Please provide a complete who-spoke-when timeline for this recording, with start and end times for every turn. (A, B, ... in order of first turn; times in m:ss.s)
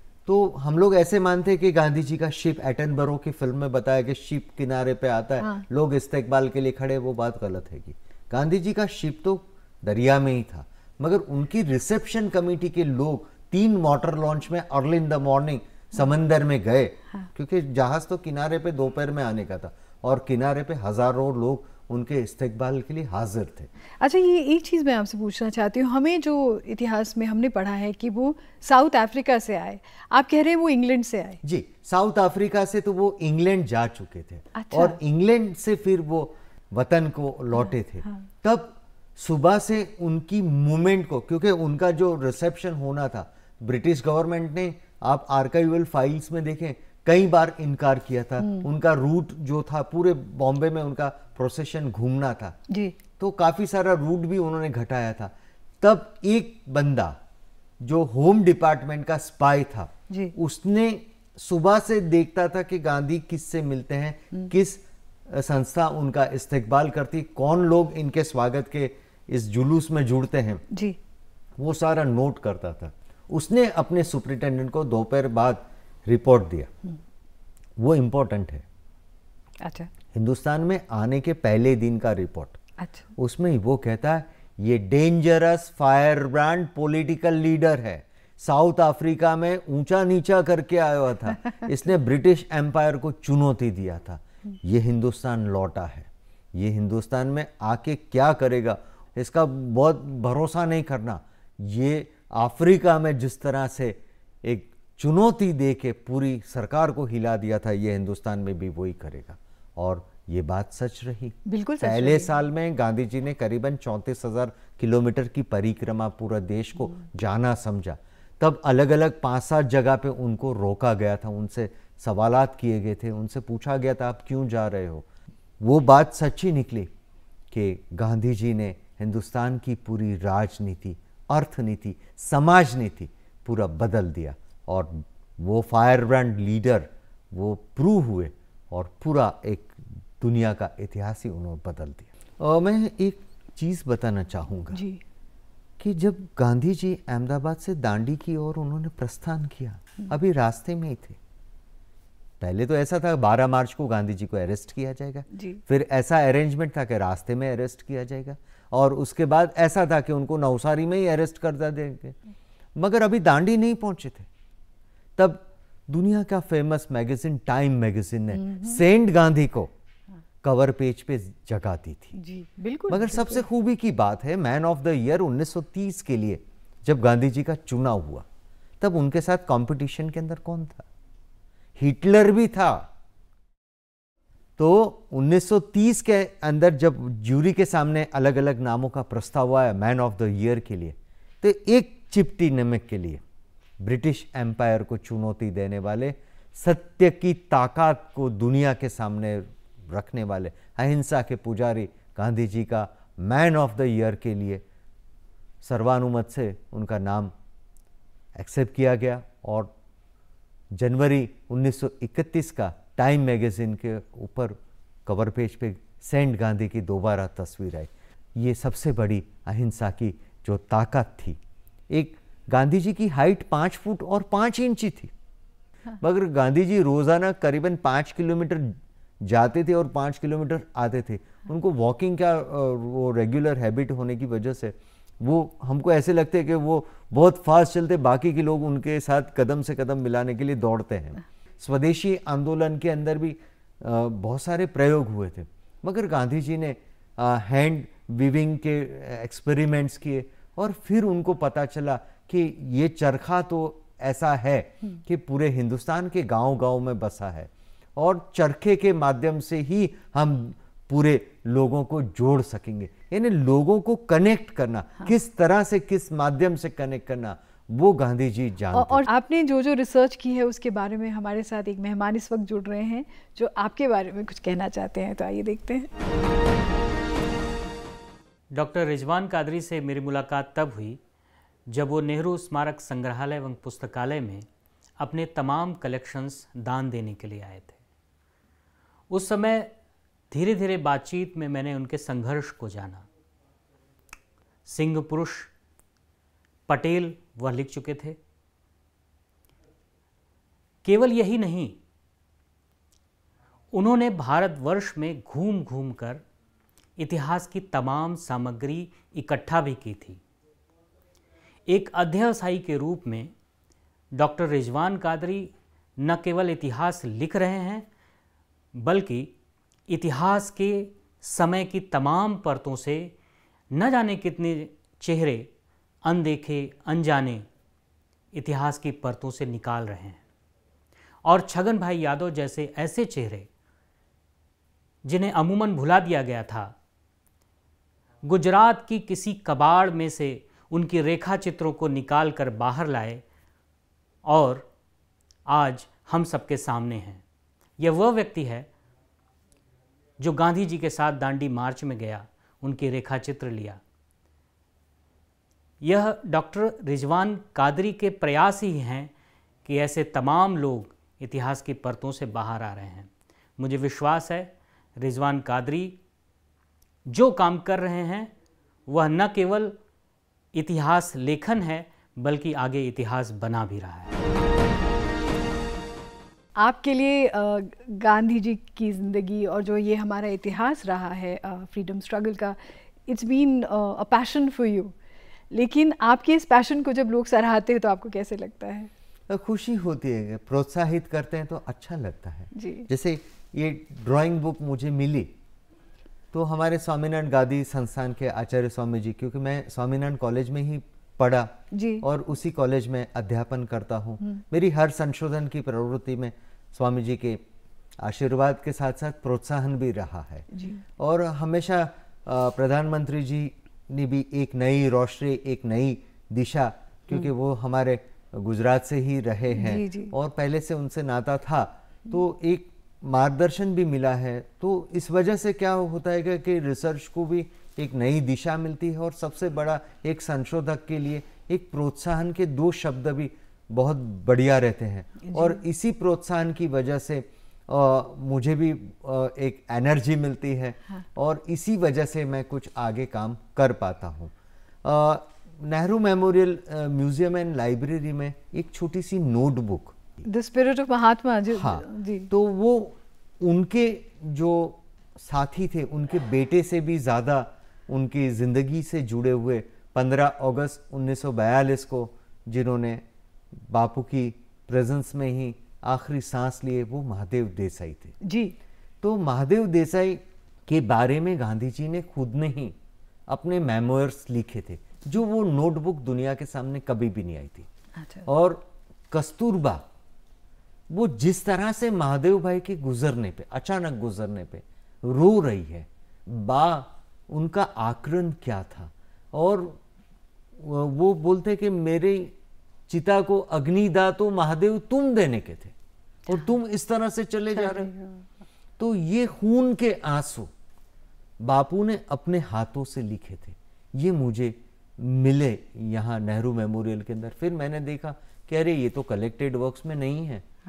0:00.2-0:23.7 A
0:24.0-0:31.4 B
0:31.4-0:52.6 A
0:34.5-0:35.0 B
0:48.4-0:48.7 B
0:52.7-0:52.9 B
0:53.2-0:57.2 A
0:57.8-1:10.6 A
1:00.1-1:00.3 B
1:10.7-1:11.0 B
1:11.6-1:16.7 A
1:17.8-1:18.6 A
1:19.6-1:19.9 B
1:20.1-1:22.6 A
1:22.8-1:23.1 B
1:23.2-2:05.0 A
1:51.4-1:52.3 B
2:05.6-2:06.9 A
2:07.5-2:24.8 A
2:24.7-2:25.0 B
2:25.8-2:31.2 A
2:32.4-2:42.2 A
2:35.3-2:35.6 B
2:42.8-2:44.3 A
2:45.2-2:49.7 A
2:48.3-2:48.8 B
2:50.4-2:52.1 A
2:52.1-2:53.4 B
2:52.9-2:58.2 A
2:58.8-3:00.8 A
3:01.8-3:02.9 A
3:04.6-3:13.2 A
3:13.8-3:24.6 A
3:25.6-3:27.3 A
3:28.3-3:29.7 A
3:30.7-3:45.1 A
3:46.0-4:29.1 A
4:28.7-4:35.9 B
4:38.5-4:41.0 C
4:41.7-4:44.4 C
4:45.0-4:47.8 C
4:49.1-4:49.7 C
4:50.3-4:53.0 C
4:54.7-4:55.5 C
4:56.7-4:58.2 C
5:00.8-5:01.8 C
5:03.7-5:06.2 C
5:07.0-5:10.2 C
5:11.7-5:13.3 C
5:14.1-5:17.8 C
5:18.7-5:19.3 C
5:19.9-5:23.1 C
5:23.7-5:25.5 C
5:26.0-5:27.4 C
5:28.3-5:30.2 C
5:31.2-5:33.5 C
5:35.0-5:36.7 C
5:38.2-5:43.2 C
5:44.2-5:44.6 C
5:45.4-5:47.2 C
5:47.8-5:48.7 C
5:50.2-5:53.8 C
5:55.8-5:59.1 C
5:59.6-6:06.0 C
6:07.0-6:08.3 C
6:08.9-6:09.8 C
6:10.5-6:14.1 C
6:16.6-6:24.9 B
6:25.5-6:28.9 B
6:29.3-6:35.3 A
6:32.5-6:32.9 B
6:36.3-6:47.4 A
6:41.7-6:42.0 B
6:48.0-7:30.0 A
6:50.5-6:50.8 B
6:59.5-7:00.1 B
7:15.2-7:15.6 B
7:30.2-7:32.3 B
7:31.5-7:43.0 A
7:43.5-7:48.2 A
7:48.2-7:48.6 B
7:49.0-7:52.7 A
7:53.3-7:57.7 A
7:58.0-7:58.3 B
7:58.2-7:59.8 A
8:00.9-8:09.8 A
8:10.6-8:12.3 A
8:12.9-8:15.7 A
8:16.3-8:17.9 A
8:17.7-8:18.2 B
8:18.8-8:20.5 A
8:21.4-8:30.4 A